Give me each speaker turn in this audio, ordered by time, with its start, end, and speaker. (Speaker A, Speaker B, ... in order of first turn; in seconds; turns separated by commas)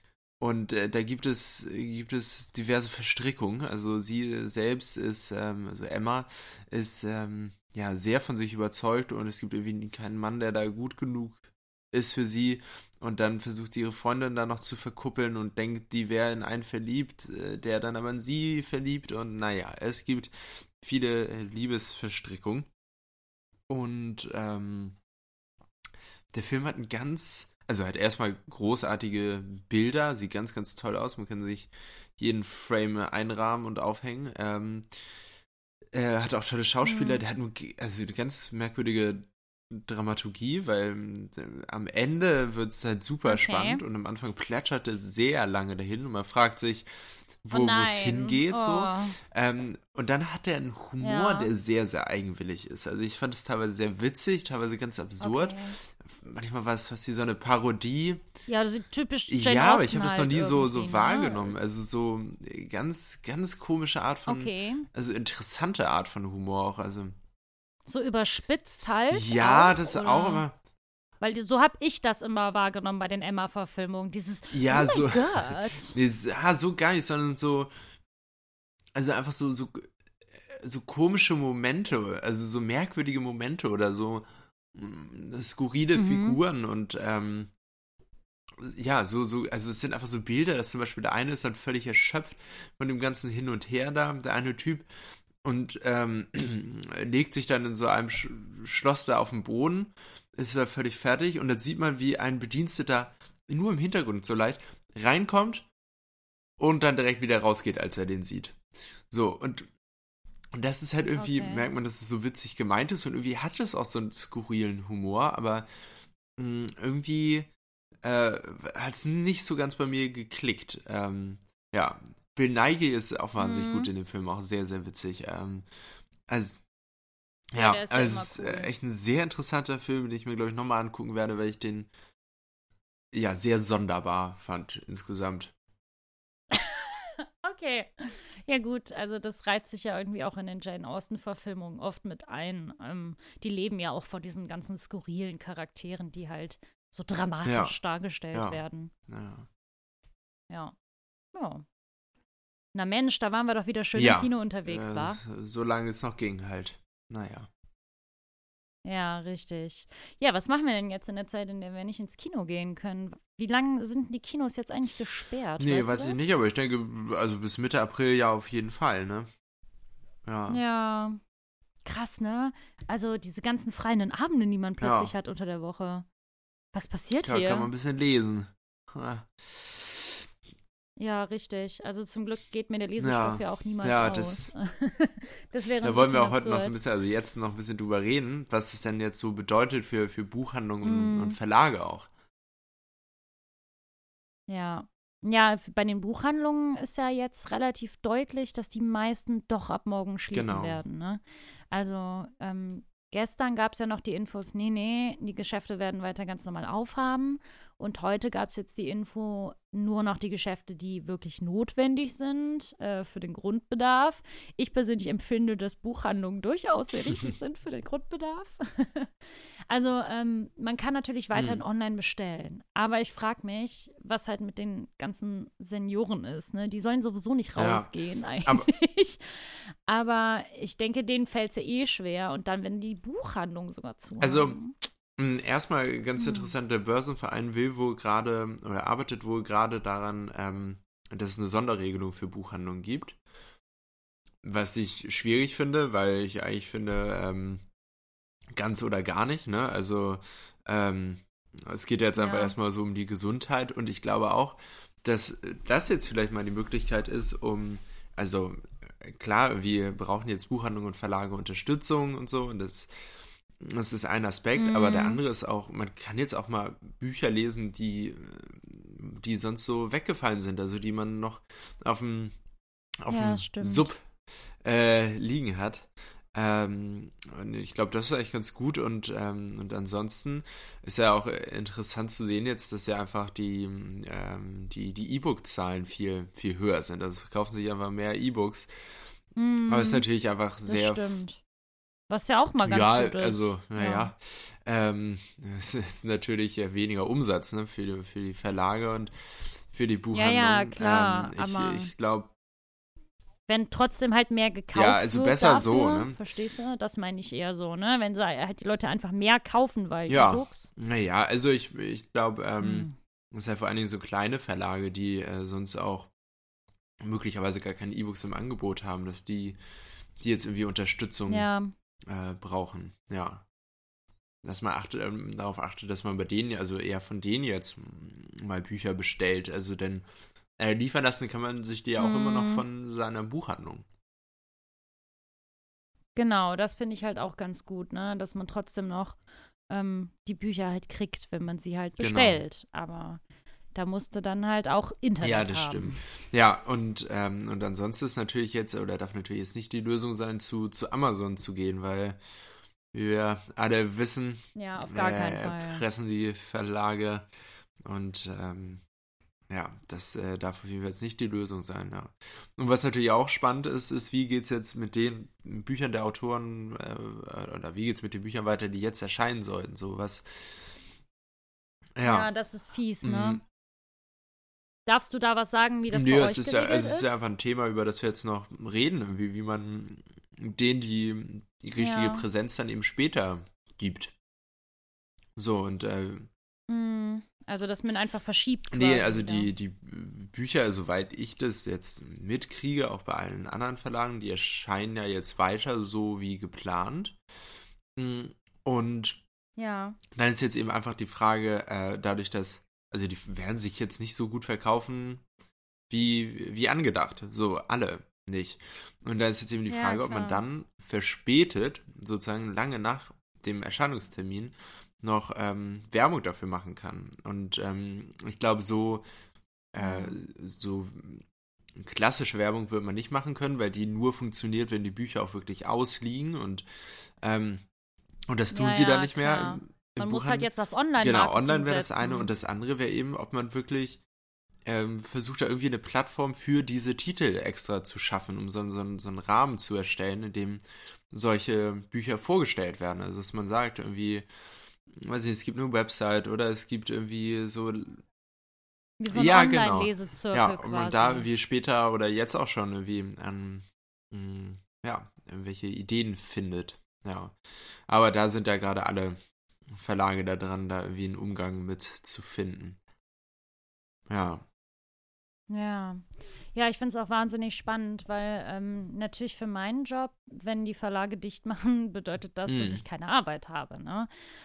Speaker A: 0.4-22.7, Speaker A: 23.7-24.9, Speaker A: 26.3-34.9, Speaker A: 35.9-46.9, Speaker B: 36.8-37.2, Speaker B: 43.2-43.8, Speaker A: 47.4-58.2, Speaker B: 47.5-49.2, Speaker B: 51.0-51.5, Speaker B: 55.2-55.8, Speaker B: 58.5-61.6, Speaker A: 59.3-67.1, Speaker B: 64.3-64.9, Speaker B: 67.9-70.4, Speaker A: 69.1-70.6, Speaker B: 71.2-76.0, Speaker A: 74.5-77.7, Speaker A: 78.9-87.5, Speaker B: 85.9-86.4, Speaker A: 88.6-94.9, Speaker A: 95.4-105.6, Speaker A: 106.6-108.6, Speaker A: 109.1-109.7, Speaker A: 110.5-115.7, Speaker B: 111.2-111.7, Speaker A: 116.4-117.5, Speaker A: 118.0-125.7, Speaker B: 123.4-123.9, Speaker A: 126.3-126.6, Speaker A: 127.5-131.9, Speaker B: 127.5-128.7, Speaker A: 133.1-135.5, Speaker B: 136.5-148.9, Speaker A: 147.4-147.8, Speaker A: 148.3-149.5, Speaker B: 151.3-151.6, Speaker B: 152.7-155.2, Speaker A: 153.9-157.5, Speaker B: 158.8-166.2, Speaker A: 165.6-169.3, Speaker A: 170.2-170.6, Speaker B: 170.5-171.2, Speaker B: 171.8-176.1, Speaker A: 174.8-175.1, Speaker B: 176.7-177.7, Speaker A: 177.2-180.2, Speaker B: 181.0-186.8, Speaker A: 183.0-184.5, Speaker A: 185.8-192.1, Speaker B: 190.8-191.4, Speaker B: 194.5-219.1, Speaker A: 200.3-200.8, Speaker B: 219.7-234.7, Speaker A: 221.3-221.6, Speaker A: 227.6-227.9, Speaker A: 234.2-234.6, Speaker A: 235.2-243.2, Speaker B: 236.2-236.5, Speaker A: 244.4-247.6, Speaker A: 248.5-262.9, Speaker B: 252.2-252.5, Speaker A: 263.6-272.3, Speaker B: 264.6-265.2, Speaker A: 273.0-274.1, Speaker B: 273.1-273.9, Speaker A: 274.6-288.7, Speaker B: 289.4-290.0, Speaker A: 289.7-291.2, Speaker B: 290.6-291.4, Speaker B: 292.1-294.1, Speaker A: 292.6-299.1, Speaker A: 299.7-302.3, Speaker B: 300.1-301.9, Speaker B: 303.5-310.7, Speaker A: 304.7-306.2, Speaker A: 310.1-316.1, Speaker B: 312.6-312.9, Speaker A: 317.0-319.6, Speaker A: 320.2-321.5, Speaker B: 321.3-321.7, Speaker A: 322.1-323.4, Speaker A: 324.4-330.1, Speaker A: 330.6-333.9, Speaker B: 332.0-332.6, Speaker B: 336.1-339.2, Speaker B: 339.7-343.2, Speaker A: 342.0-342.4, Speaker B: 343.7-346.0, Speaker A: 345.2-352.2, Speaker A: 352.9-357.3, Speaker B: 354.5-355.8, Speaker A: 357.8-358.8, Speaker A: 359.5-370.2, Speaker A: 371.9-372.3, Speaker B: 372.0-373.4, Speaker A: 373.0-373.4, Speaker B: 374.9-377.1, Speaker A: 375.9-384.1, Speaker B: 381.8-382.2, Speaker A: 385.4-386.3, Speaker B: 386.7-389.5, Speaker A: 388.7-397.2, Speaker A: 397.9-399.2, Speaker B: 399.6-400.0, Speaker A: 400.1-405.2, Speaker A: 405.9-419.0, Speaker B: 409.7-410.4, Speaker A: 419.7-426.6, Speaker B: 419.8-420.2, Speaker A: 427.2-427.6, Speaker A: 428.3-434.0, Speaker B: 428.5-432.3, Speaker A: 434.6-444.2, Speaker A: 444.9-448.0, Speaker B: 449.0-451.3, Speaker A: 449.1-457.4, Speaker A: 457.9-459.2, Speaker A: 459.7-462.8, Speaker A: 464.1-464.4, Speaker B: 465.5-474.1, Speaker A: 472.5-472.8